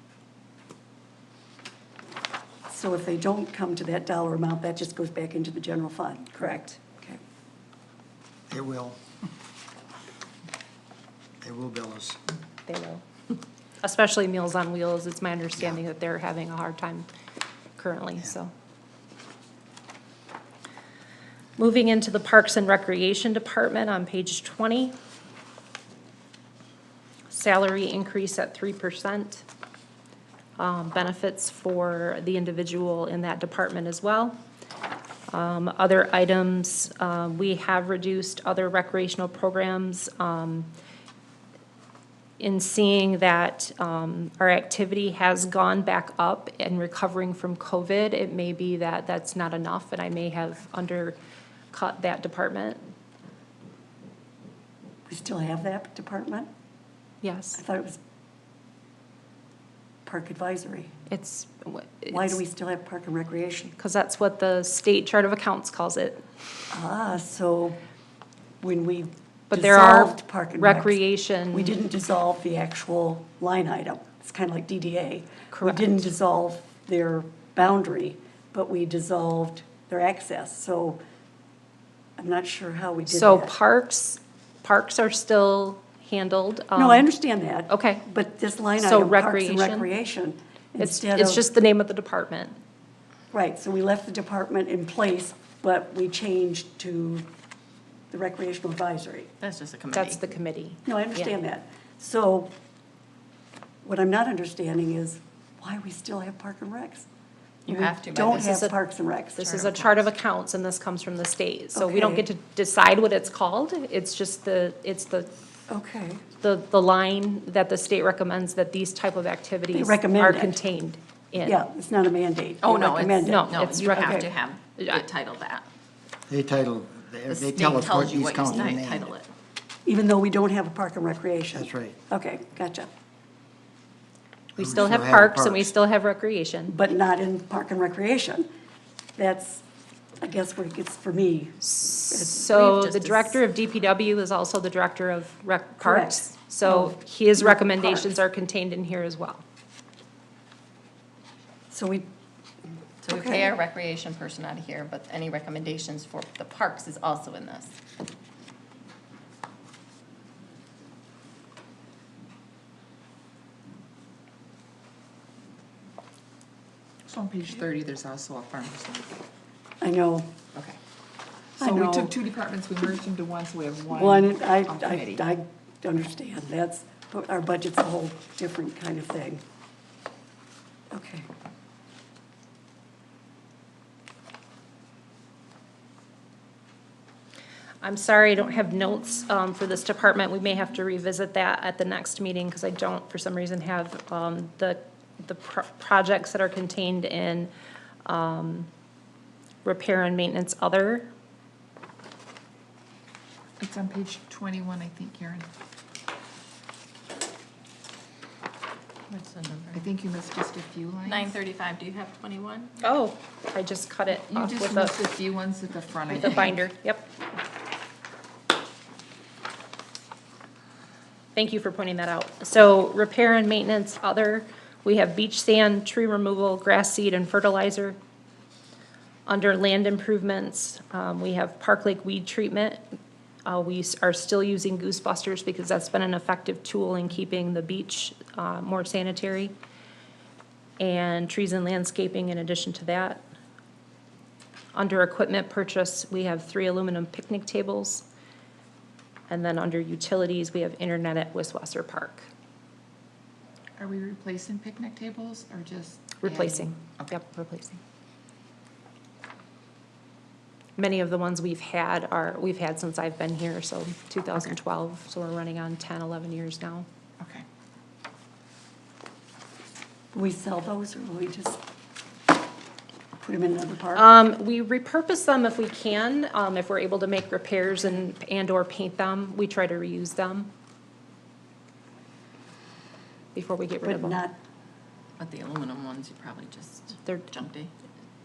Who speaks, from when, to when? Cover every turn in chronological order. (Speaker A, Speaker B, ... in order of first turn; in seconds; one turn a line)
Speaker A: 2.7-7.2
Speaker B: 6.3-6.8
Speaker C: 8.5-9.0
Speaker C: 11.4-12.2
Speaker B: 12.7-13.0
Speaker B: 13.8-17.1
Speaker B: 17.8-18.5
Speaker B: 21.6-24.9
Speaker B: 27.3-29.4
Speaker B: 30.6-34.4
Speaker B: 35.3-40.7
Speaker B: 42.4-51.2
Speaker B: 51.7-52.8
Speaker A: 55.1-56.5
Speaker B: 57.2-57.6
Speaker A: 57.5-58.0
Speaker A: 60.0-60.9
Speaker B: 61.1-62.4
Speaker A: 62.1-63.8
Speaker B: 63.8-66.2
Speaker A: 66.7-67.8
Speaker A: 68.6-81.0
Speaker B: 69.5-71.8
Speaker B: 75.5-76.1
Speaker A: 82.2-83.5
Speaker B: 83.1-87.1
Speaker A: 86.8-91.5
Speaker B: 87.7-88.0
Speaker B: 88.8-89.9
Speaker B: 90.8-92.6
Speaker A: 93.3-97.3
Speaker A: 98.1-99.3
Speaker D: 99.4-100.2
Speaker B: 99.9-101.4
Speaker A: 100.9-102.5
Speaker A: 103.8-107.1
Speaker D: 107.7-108.7
Speaker A: 107.7-109.6
Speaker B: 108.3-108.8
Speaker B: 109.4-115.3
Speaker D: 109.5-110.0
Speaker A: 111.7-112.3
Speaker A: 115.7-116.2
Speaker B: 116.4-121.6
Speaker A: 119.7-120.6
Speaker A: 121.4-124.3
Speaker D: 122.6-125.7
Speaker B: 123.3-125.0
Speaker C: 126.3-129.1
Speaker D: 127.3-129.3
Speaker A: 129.8-132.9
Speaker C: 131.5-132.0
Speaker C: 134.6-135.7
Speaker B: 134.6-136.8
Speaker A: 136.7-138.5
Speaker A: 139.2-139.6
Speaker A: 140.2-141.6
Speaker B: 141.6-149.4
Speaker A: 142.1-142.5
Speaker D: 142.5-143.4
Speaker A: 145.8-148.1
Speaker A: 151.7-152.1
Speaker D: 153.0-157.7
Speaker A: 153.1-153.6
Speaker E: 167.1-169.2
Speaker A: 169.8-170.3
Speaker E: 171.6-175.2
Speaker A: 171.6-172.2
Speaker A: 173.9-179.4
Speaker A: 180.9-181.3
Speaker B: 187.8-197.5
Speaker B: 198.1-198.7
Speaker B: 199.6-201.1
Speaker E: 203.6-205.5
Speaker D: 209.1-209.8
Speaker E: 209.7-211.4
Speaker D: 211.1-212.8
Speaker B: 212.8-215.0
Speaker E: 214.1-216.7
Speaker B: 216.1-217.1
Speaker B: 221.3-228.0
Speaker B: 229.3-232.8
Speaker B: 233.4-239.5
Speaker B: 240.8-243.2
Speaker B: 244.7-248.1
Speaker B: 249.3-252.3
Speaker E: 253.8-257.2
Speaker B: 256.2-257.8
Speaker B: 260.8-266.9
Speaker E: 267.2-267.4
Speaker A: 270.1-271.6
Speaker A: 273.2-274.1
Speaker B: 273.9-280.5
Speaker B: 283.3-284.2
Speaker A: 283.8-284.4
Speaker D: 285.2-287.7